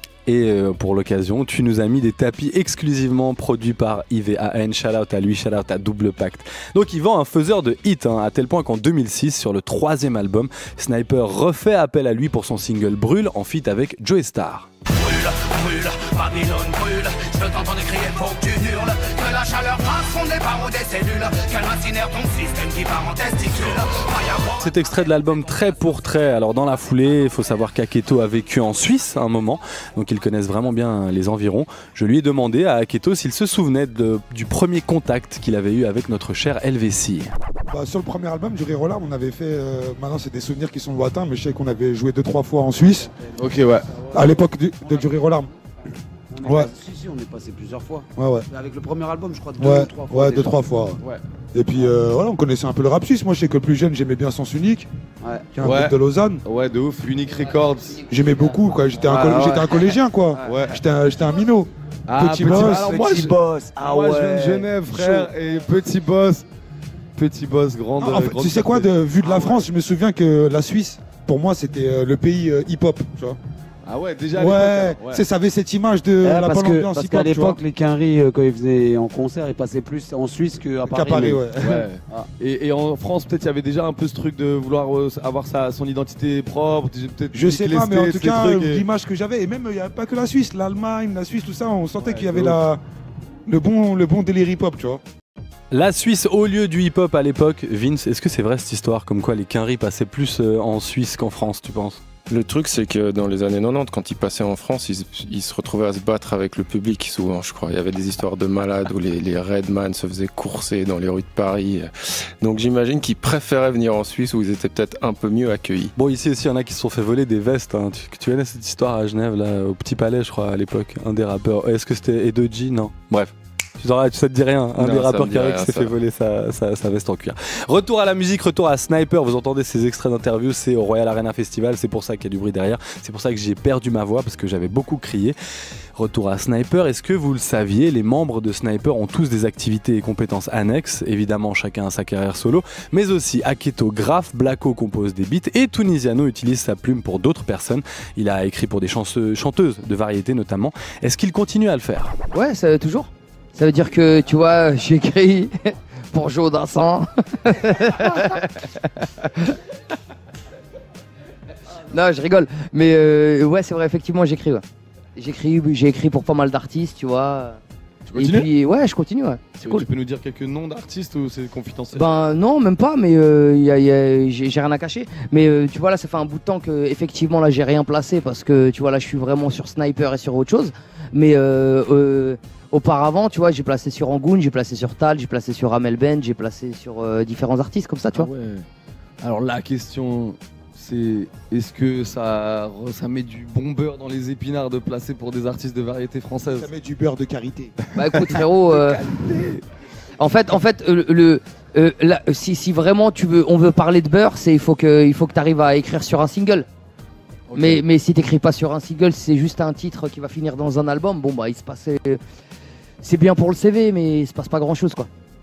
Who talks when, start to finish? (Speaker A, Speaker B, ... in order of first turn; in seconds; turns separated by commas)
Speaker A: 0.3-14.7, Speaker B: 14.9-24.6, Speaker A: 24.6-37.3, Speaker C: 37.7-43.1, Speaker D: 43.1-43.5, Speaker E: 43.4-44.0, Speaker C: 44.1-45.5, Speaker D: 46.3-50.6, Speaker C: 46.4-46.7, Speaker C: 48.2-48.5, Speaker C: 49.6-51.0, Speaker C: 51.5-54.9, Speaker D: 55.2-55.5, Speaker C: 55.5-56.4, Speaker E: 55.6-58.0, Speaker F: 57.9-59.1, Speaker C: 58.1-62.9, Speaker D: 59.1-60.6, Speaker E: 60.4-60.8, Speaker E: 62.1-66.4, Speaker D: 62.7-65.3, Speaker E: 67.2-68.9, Speaker C: 68.0-73.4, Speaker D: 69.2-69.6, Speaker E: 73.9-75.2, Speaker C: 74.3-77.6, Speaker D: 76.2-82.3, Speaker C: 80.9-81.8, Speaker E: 81.6-88.8, Speaker C: 87.3-92.8, Speaker E: 92.0-92.6, Speaker C: 93.5-95.0, Speaker A: 95.7-102.0, Speaker G: 102.3-111.9, Speaker G: 112.4-115.9, Speaker A: 116.0-135.4, Speaker G: 124.8-126.0, Speaker A: 136.0-152.2, Speaker F: 152.3-159.6, Speaker F: 161.9-164.6, Speaker F: 165.2-167.6, Speaker E: 168.1-168.5, Speaker F: 168.2-169.9, Speaker E: 169.6-172.2, Speaker F: 171.9-188.3, Speaker E: 188.1-188.7, Speaker E: 189.2-196.7, Speaker C: 196.5-197.8, Speaker F: 197.9-199.0, Speaker E: 197.9-199.6, Speaker F: 200.2-206.7, Speaker E: 207.5-207.8, Speaker F: 207.6-212.2, Speaker F: 213.0-215.1